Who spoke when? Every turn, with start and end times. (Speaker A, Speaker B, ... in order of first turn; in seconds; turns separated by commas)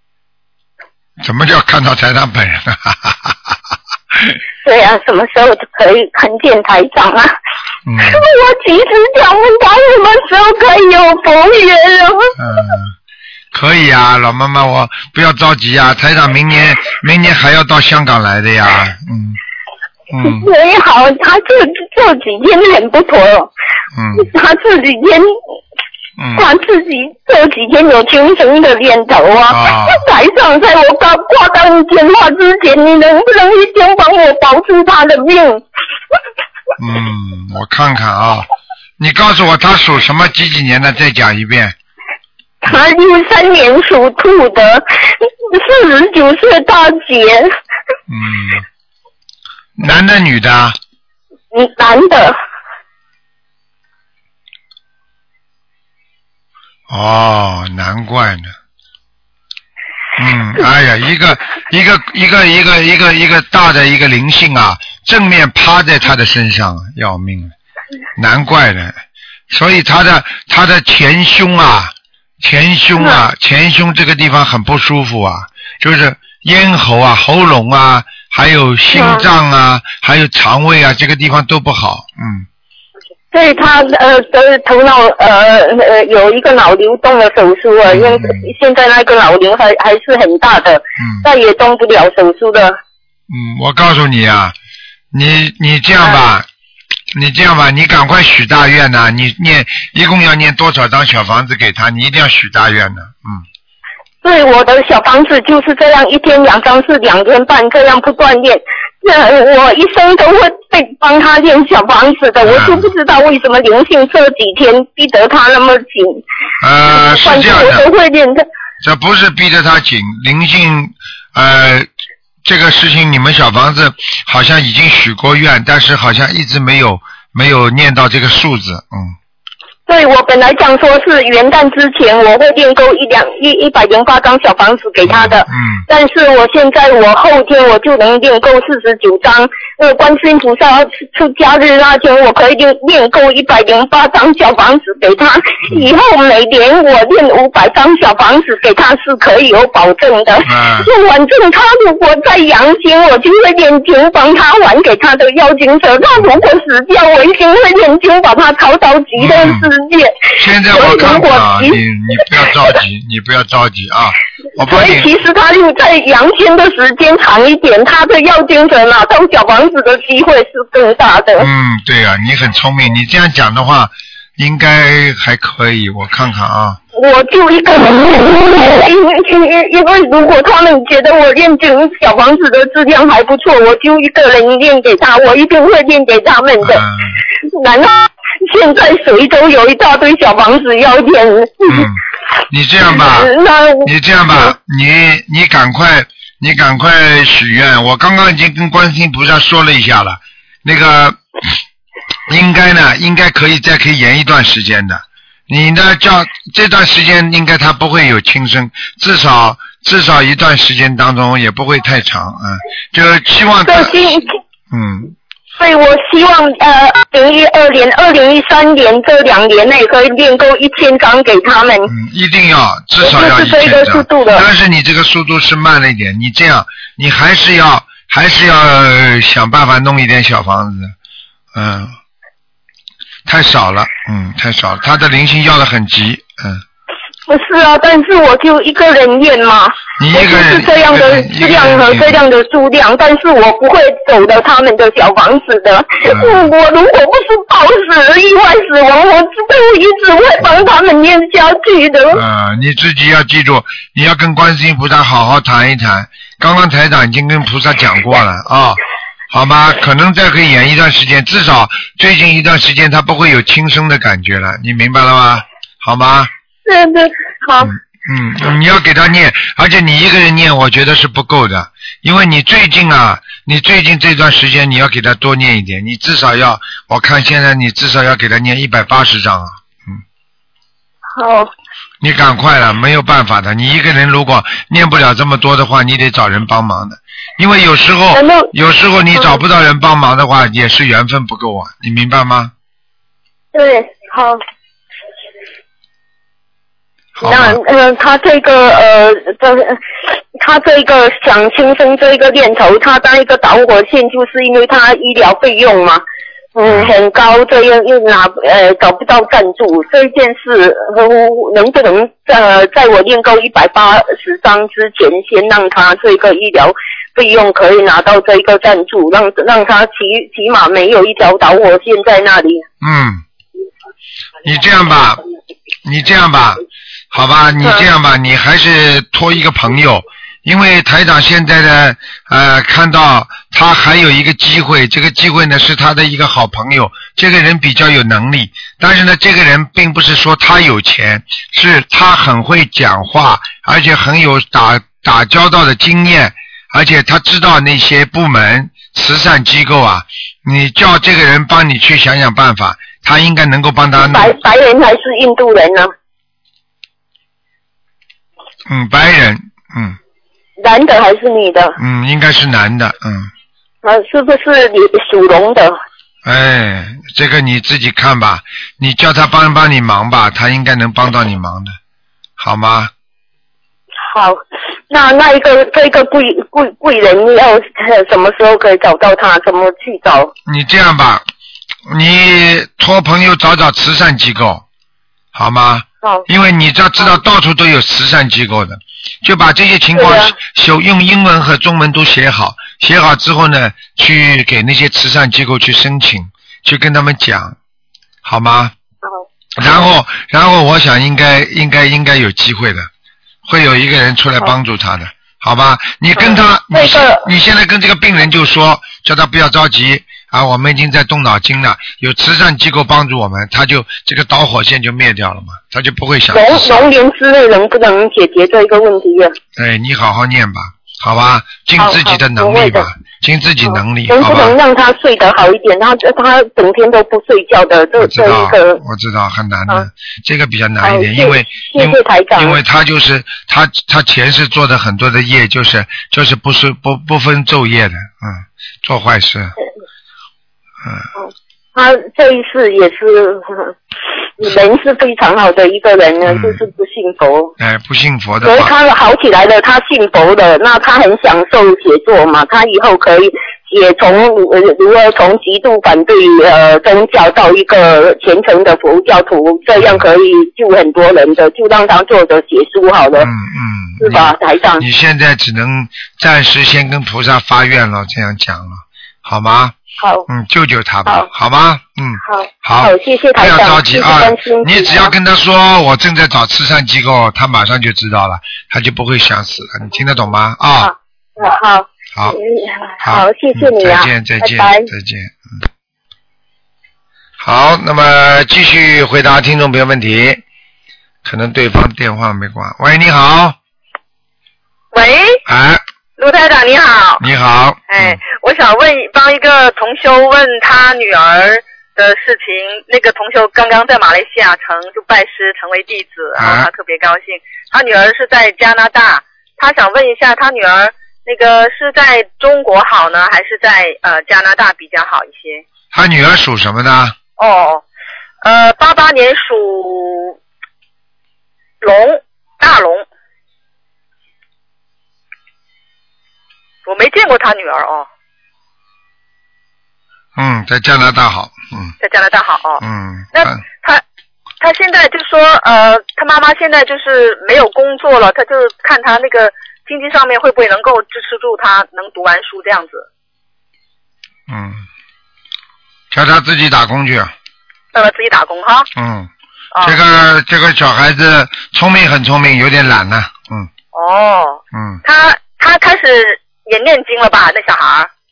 Speaker A: 1.2-3.6, Speaker A: 4.1-4.4, Speaker B: 4.6-7.3, Speaker A: 7.9-8.2, Speaker B: 8.0-12.3, Speaker A: 12.4-12.9, Speaker A: 13.5-19.4, Speaker A: 20.1-20.5, Speaker B: 20.2-23.5, Speaker A: 23.9-24.3, Speaker B: 24.1-25.3, Speaker A: 26.2-26.5, Speaker B: 26.4-35.6, Speaker A: 29.5-30.0, Speaker A: 36.8-38.5, Speaker A: 39.0-41.8, Speaker B: 42.6-47.5, Speaker A: 48.1-48.6, Speaker A: 49.8-50.8, Speaker B: 51.5-52.4, Speaker A: 56.9-58.5, Speaker A: 60.2-67.5, Speaker A: 68.2-69.0, Speaker A: 69.5-82.5, Speaker B: 78.9-79.2, Speaker B: 83.3-92.8, Speaker A: 87.9-88.5, Speaker A: 93.3-94.5, Speaker A: 95.1-96.5, Speaker A: 97.1-103.4, Speaker B: 104.2-116.2, Speaker A: 112.4-112.9, Speaker A: 116.6-117.9, Speaker B: 116.9-118.5, Speaker A: 118.8-121.9, Speaker A: 122.5-129.2, Speaker B: 129.9-161.8, Speaker A: 135.1-135.8, Speaker A: 150.4-150.9, Speaker A: 159.2-159.7, Speaker A: 160.4-165.1, Speaker B: 164.7-171.5, Speaker A: 171.4-176.8, Speaker B: 176.9-186.8, Speaker A: 186.6-187.2, Speaker B: 187.4-191.9, Speaker A: 191.7-193.3, Speaker B: 192.9-194.5, Speaker A: 193.8-201.2, Speaker A: 202.3-213.9, Speaker B: 213.7-214.3, Speaker A: 214.7-215.1, Speaker B: 215.6-221.9, Speaker A: 221.9-230.9, Speaker B: 223.0-224.4, Speaker A: 231.5-231.9, Speaker A: 233.3-236.6, Speaker B: 237.3-252.2, Speaker A: 240.0-242.2, Speaker A: 246.1-246.5, Speaker A: 252.1-258.8, Speaker A: 259.3-266.3, Speaker B: 266.6-267.7, Speaker A: 267.6-280.0, Speaker B: 281.2-281.5, Speaker A: 282.0-292.5, Speaker B: 288.1-288.5, Speaker B: 293.5-294.4, Speaker A: 297.2-297.6, Speaker B: 297.2-299.8, Speaker B: 300.4-306.0, Speaker B: 306.6-322.6, Speaker A: 306.7-306.9, Speaker A: 322.8-323.2, Speaker A: 324.4-325.2, Speaker A: 325.9-354.4, Speaker B: 354.0-355.9, Speaker A: 358.7-360.0, Speaker B: 360.6-361.8, Speaker A: 361.8-363.3, Speaker B: 363.8-365.8, Speaker A: 366.2-371.8, Speaker A: 372.4-372.9, Speaker B: 374.1-380.3, Speaker A: 380.5-381.2, Speaker A: 381.9-384.6, Speaker A: 385.3-397.6, Speaker B: 390.0-390.4, Speaker A: 398.2-398.7, Speaker A: 399.6-402.9, Speaker A: 403.5-416.9, Speaker B: 406.2-407.2, Speaker B: 416.3-419.4, Speaker A: 419.6-424.6, Speaker B: 421.8-422.9, Speaker B: 424.1-428.8, Speaker A: 428.0-439.6, Speaker B: 430.8-432.6, Speaker A: 440.8-441.1, Speaker B: 441.2-443.7, Speaker B: 444.4-447.5, Speaker A: 446.2-446.6, Speaker A: 447.6-448.7, Speaker B: 448.4-463.3, Speaker A: 459.8-460.0, Speaker A: 463.2-469.8, Speaker B: 464.0-464.8, Speaker B: 470.0-470.3, Speaker A: 470.3-480.9, Speaker B: 472.2-475.1, Speaker B: 480.8-484.9, Speaker A: 483.0-485.6, Speaker A: 487.4-490.4, Speaker A: 491.2-493.6, Speaker C: 494.9-495.4, Speaker A: 495.5-495.8, Speaker C: 496.2-497.2, Speaker A: 497.2-498.2, Speaker C: 497.9-515.6, Speaker A: 506.4-506.7, Speaker A: 515.9-517.1, Speaker C: 517.4-517.8, Speaker C: 518.4-520.4, Speaker C: 521.8-523.1, Speaker C: 526.9-528.1, Speaker A: 530.4-532.0, Speaker C: 532.0-532.8, Speaker A: 532.8-533.6, Speaker C: 533.3-534.0, Speaker C: 534.6-543.1, Speaker A: 544.5-544.9, Speaker A: 546.1-547.3, Speaker C: 547.9-548.9, Speaker A: 549.0-549.3, Speaker C: 549.7-550.0, Speaker A: 549.8-553.7, Speaker C: 553.9-558.1, Speaker A: 554.7-555.0